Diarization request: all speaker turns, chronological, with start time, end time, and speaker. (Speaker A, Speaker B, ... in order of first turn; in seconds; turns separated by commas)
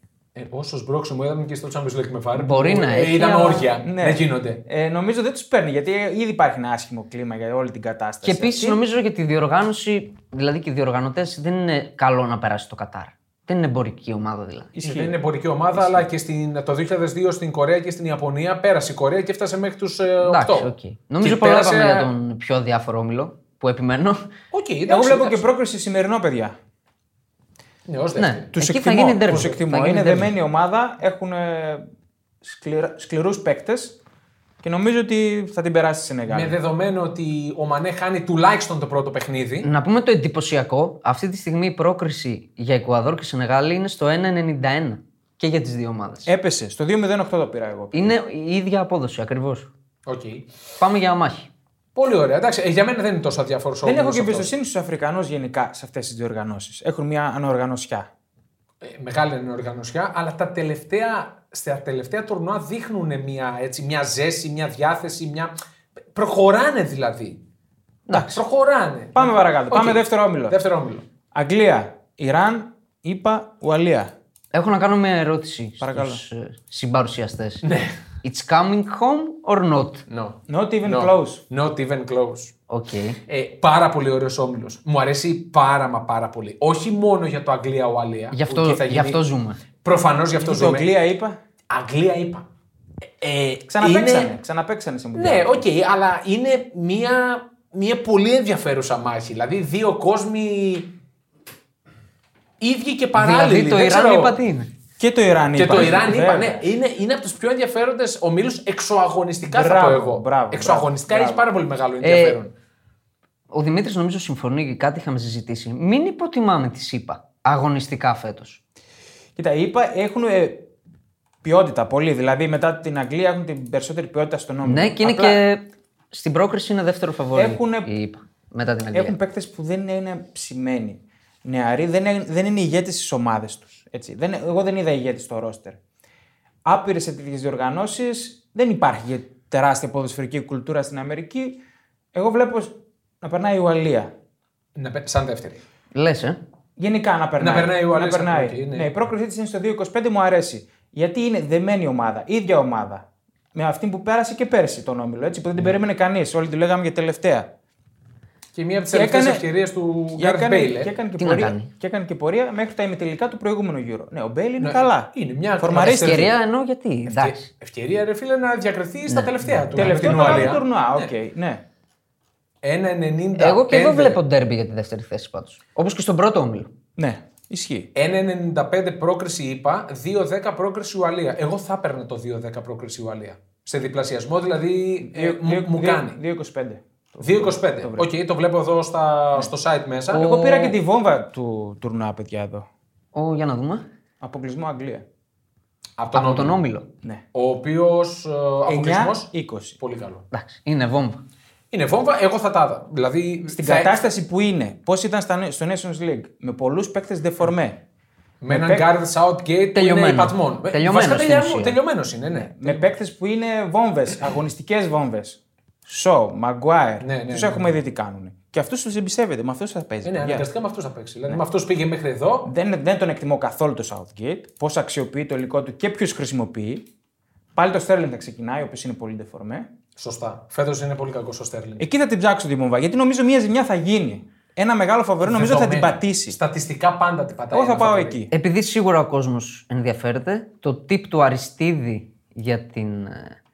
Speaker A: 0.3-4.6, Speaker B: 2.3-3.7, Speaker C: 3.8-8.8, Speaker B: 8.2-14.7, Speaker C: 14.7-15.2, Speaker A: 14.8-22.1, Speaker C: 15.7-16.1, Speaker B: 20.2-24.3, Speaker A: 24.5-25.4, Speaker C: 24.9-26.6, Speaker A: 27.9-28.5, Speaker B: 28.2-30.3, Speaker C: 28.5-31.8, Speaker A: 29.3-29.5, Speaker C: 32.4-34.0, Speaker C: 34.6-36.6, Speaker A: 36.3-39.7, Speaker B: 39.6-46.3, Speaker C: 46.2-48.1, Speaker B: 47.9-49.7, Speaker A: 50.0-50.5, Speaker B: 50.8-51.5, Speaker A: 51.9-54.5, Speaker C: 53.8-58.1, Speaker A: 58.8-65.5, Speaker A: 66.1-67.4, Speaker B: 68.1-68.4, Speaker C: 68.1-68.4, Speaker A: 68.1-71.0, Speaker C: 69.1-70.6, Speaker C: 71.3-74.1, Speaker B: 74.5-77.6, Speaker C: 75.8-76.2, Speaker A: 77.6-77.9, Speaker B: 78.2-80.0, Speaker A: 80.1-82.5, Speaker C: 80.5-81.4, Speaker B: 82.7-83.2, Speaker A: 83.3-89.2, Speaker B: 88.3-89.6, Speaker A: 89.8-90.9, Speaker C: 90.3-91.4, Speaker A: 91.7-92.5, Speaker A: 93.2-94.3, Speaker C: 93.7-95.6, Speaker A: 95.1-100.9, Speaker A: 102.6-104.4, Speaker B: 103.2-104.7, Speaker C: 105.0-106.7, Speaker A: 105.6-112.5, Speaker C: 109.5-111.5, Speaker B: 112.0-112.4, Speaker B: 113.5-118.6, Speaker C: 119.3-120.7, Speaker C: 121.4-125.4, Speaker B: 124.6-129.2, Speaker C: 127.3-127.9, Speaker C: 128.9-135.8, Speaker C: 136.6-141.6, Speaker C: 142.1-144.1, Speaker A: 144.7-145.6, Speaker B: 145.9-146.4, Speaker C: 146.8-157.5, Speaker A: 147.4-148.9, Speaker A: 158.5-160.9, Speaker C: 158.9-159.5, Speaker C: 160.1-166.3, Speaker B: 161.2-161.7, Speaker A: 164.6-166.3, Speaker B: 166.0-167.5, Speaker A: 167.1-171.1, Speaker B: 169.1-170.5, Speaker C: 169.8-171.6, Speaker A: 172.6-174.2, Speaker B: 173.3-176.7, Speaker C: 176.9-177.9, Speaker A: 177.9-186.2, Speaker C: 185.0-188.1, Speaker A: 187.2-190.4, Speaker C: 190.1-192.7, Speaker B: 190.1-190.7, Speaker B: 193.1-193.8, Speaker C: 194.2-195.1, Speaker A: 196.0-196.6, Speaker B: 196.1-196.9, Speaker A: 197.3-200.2, Speaker C: 198.7-199.8, Speaker B: 200.3-201.2, Speaker A: 201.7-204.0, Speaker C: 203.4-207.8, Speaker A: 208.4-212.9, Speaker C: 208.5-208.9, Speaker B: 209.7-211.8, Speaker C: 212.3-220.5, Speaker A: 217.0-217.7, Speaker A: 220.0-222.5, Speaker C: 222.4-226.9, Speaker C: 227.5-229.7, Speaker A: 230.0-231.8, Speaker C: 231.8-236.4, Speaker A: 235.2-238.2, Speaker C: 237.5-238.3, Speaker B: 238.3-243.4